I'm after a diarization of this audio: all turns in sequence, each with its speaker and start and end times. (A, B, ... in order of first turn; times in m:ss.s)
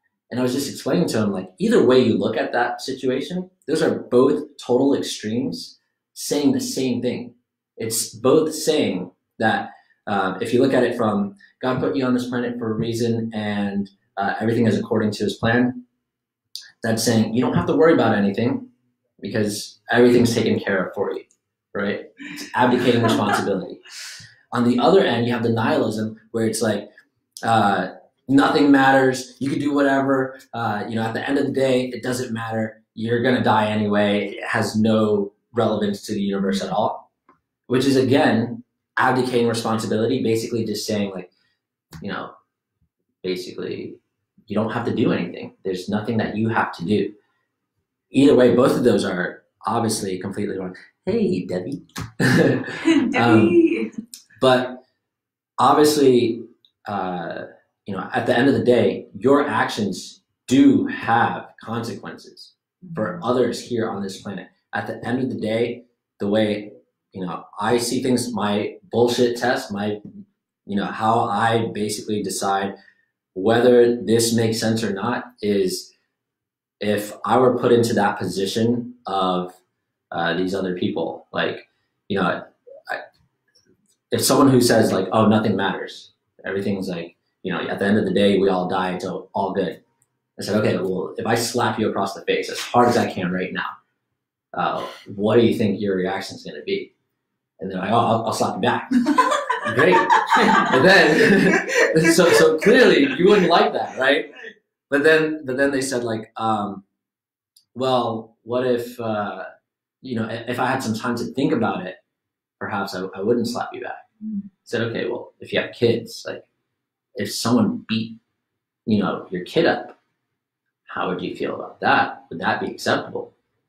0:00.3-0:15.8 A
0:16.8-0:18.7 A
0:19.2-0:23.8 A
0:24.5-0:26.9 A
0:27.4-0:37.0 A
0:36.4-0:36.7 B
0:37.7-0:41.3 A
0:42.0-0:42.3 A
0:43.2-0:47.1 A
0:48.1-0:53.6 A
0:52.8-0:53.9 B
0:54.4-0:54.8 A
0:55.6-1:10.0 A
1:02.8-1:03.2 B
1:10.7-1:12.7 A
1:13.3-1:15.9 A
1:16.8-1:19.6 A
1:20.1-1:23.0 A
1:24.1-1:29.8 A
1:30.4-1:33.7 A
1:34.5-1:36.9 A
1:37.6-1:44.3 A
1:39.8-1:42.1 B
1:44.9-1:46.8 A
1:47.7-1:49.5 A
1:50.0-1:52.0 A
1:52.6-1:54.0 A
1:54.2-1:54.5 B
1:54.6-1:56.4 A
1:57.2-1:58.2 A
1:58.9-2:00.0 A
2:00.9-2:03.3 A